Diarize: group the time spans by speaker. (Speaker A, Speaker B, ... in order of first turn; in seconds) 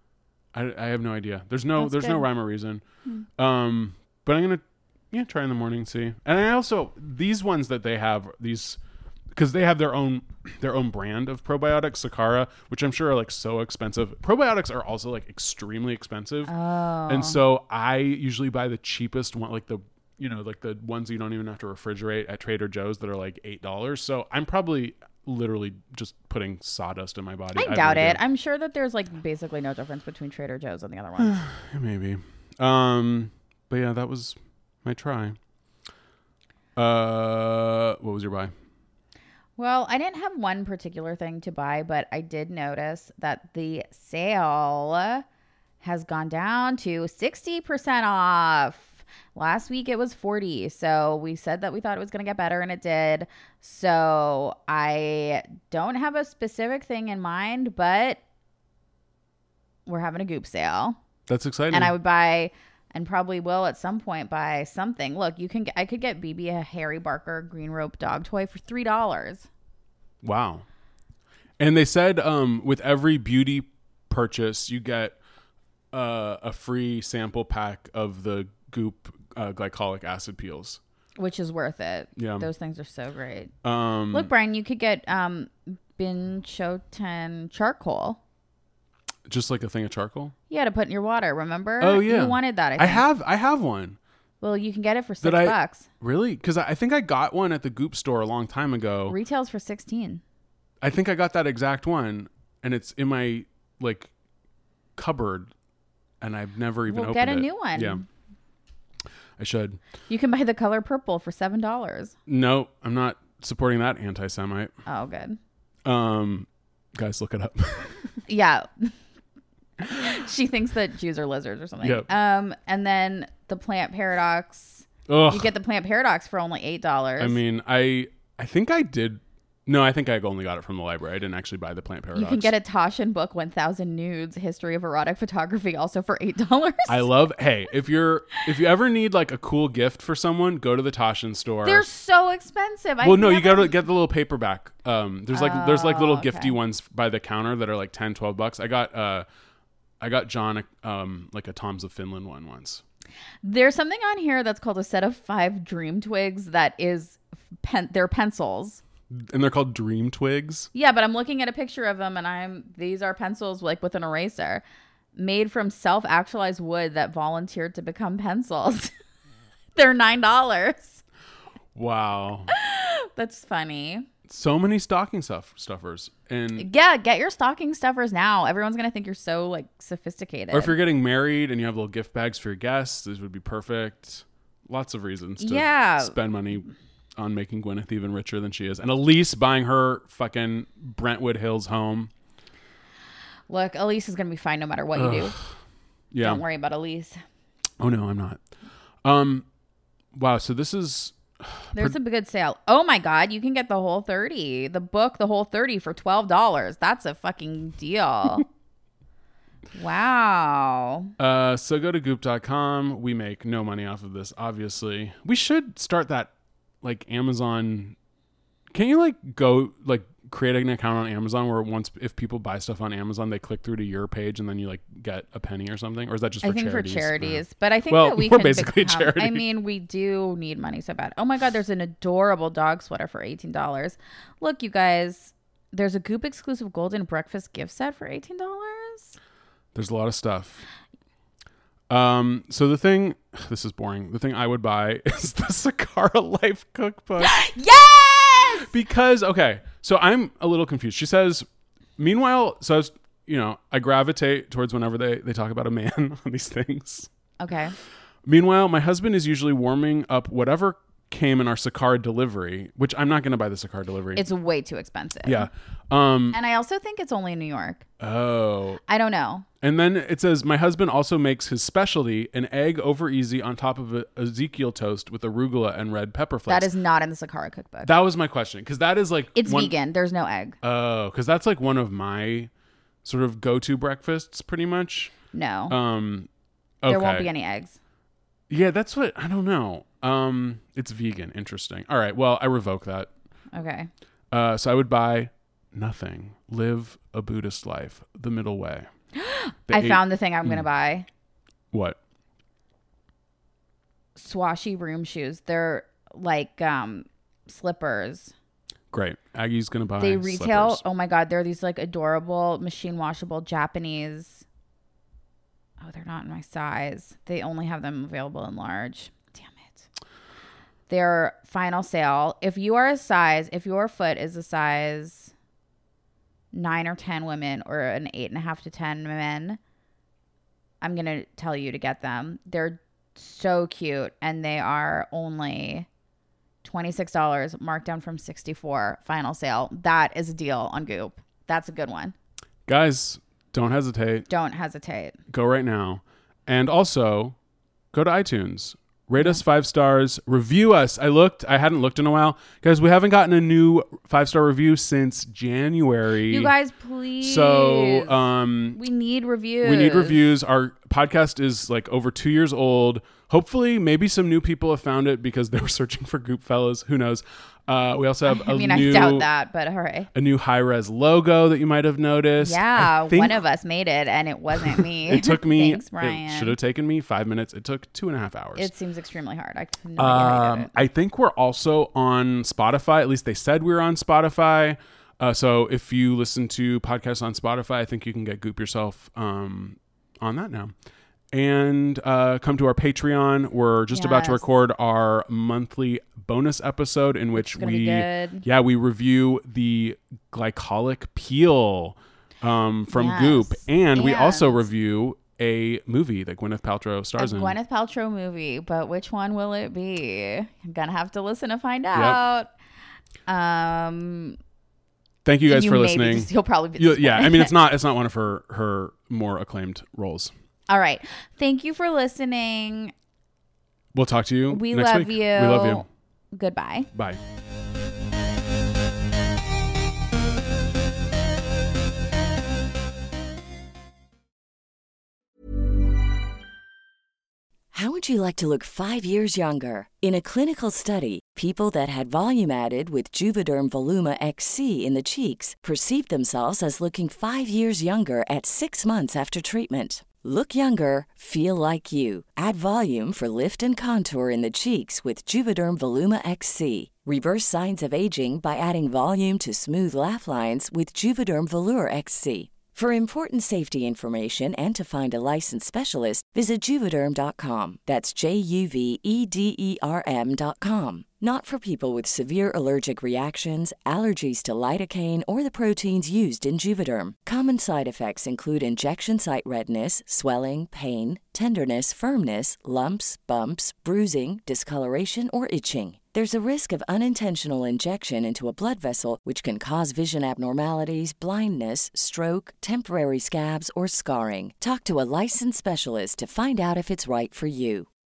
Speaker A: 0.5-2.8, 3.4-8.8, 9.3-16.5, 17.1-28.2, 31.2-35.4, 36.8-38.5, 61.3-61.9, 70.2-70.7, 71.6-75.2, 75.9-80.8, 82.2-82.5, 83.6-84.3, 89.3-90.3, 91.8-94.0, 95.2-99.2, 100.8-104.1, 105.0-105.5, 106.2-108.0, 109.4-109.8, 112.3-114.7, 115.8-118.0, 121.8-122.1, 125.1-125.5, 127.2-132.5, 136.9-141.9, 143.0-149.3, 150.0-152.8, 159.1-160.7, 171.8-172.5, 174.3-176.7, 180.5-186.7, 187.2-192.1, 195.0-195.5, 196.1-196.4, 197.8-198.4, 199.0-199.4, 200.1-201.9, 211.2-216.3, 216.8-217.9, 218.7-229.4, 239.8-240.7, 241.9-247.5, 248.6-251.5, 252.0-257.1, 258.3-264.2, 265.2-266.4, 268.0-268.8, 269.6-276.7, 277.8-279.8, 280.6-282.5, 283.0-285.1, 285.7-286.3, 286.8-287.3, 288.5-293.1, 294.3-298.9, 299.7-300.6, 301.7-302.0, 308.9-310.8, 342.7-344.3, 345.3-347.4, 347.9-356.5, 357.2-358.8, 359.6-369.3, 370.1-373.4, 374.6-378.7, 380.0-390.7, 391.3-407.6, 411.9-412.2, 415.2-420.3, 423.9-425.9, 426.9-427.2
Speaker B: 1.8-2.3, 16.5-17.4, 27.6-31.4, 39.6-45.2, 45.8-58.2, 59.9-61.0, 61.7-69.5, 81.2-83.5, 84.1-88.2, 90.5-93.0, 94.4-95.9, 99.1-100.2, 106.9-108.0, 110.1-112.2, 114.9-115.4, 118.3-119.0, 119.8-127.4, 132.2-137.1, 141.7-143.7, 145.3-146.6, 153.4-158.8, 160.7-164.6, 165.2-168.9, 169.8-171.0, 172.5-174.1, 176.6-180.7, 185.4-186.2, 193.5-195.4, 196.2-197.2, 201.8-208.5, 209.8-211.1, 226.4-239.2, 247.2-248.7, 257.4-257.8, 264.2-265.5, 266.3-267.9, 268.9-269.5, 276.5-277.9, 279.4-280.6, 285.3-285.8, 286.9-287.8, 293.5-293.9, 299.1-301.1, 304.2-308.3, 310.0-314.4, 315.8-319.9, 320.9-325.3, 326.5-329.6, 330.8-335.9, 336.6-342.1, 344.3-345.2, 349.2-349.4, 356.3-358.2, 358.8-360.2, 368.2-370.1, 372.4-376.6, 378.6-380.7, 393.9-394.5, 397.4-398.4, 402.9-404.6, 407.2-412.5, 413.3-414.4, 415.5-417.5, 420.7-422.9, 424.5-426.9
Speaker C: 437.7-497.9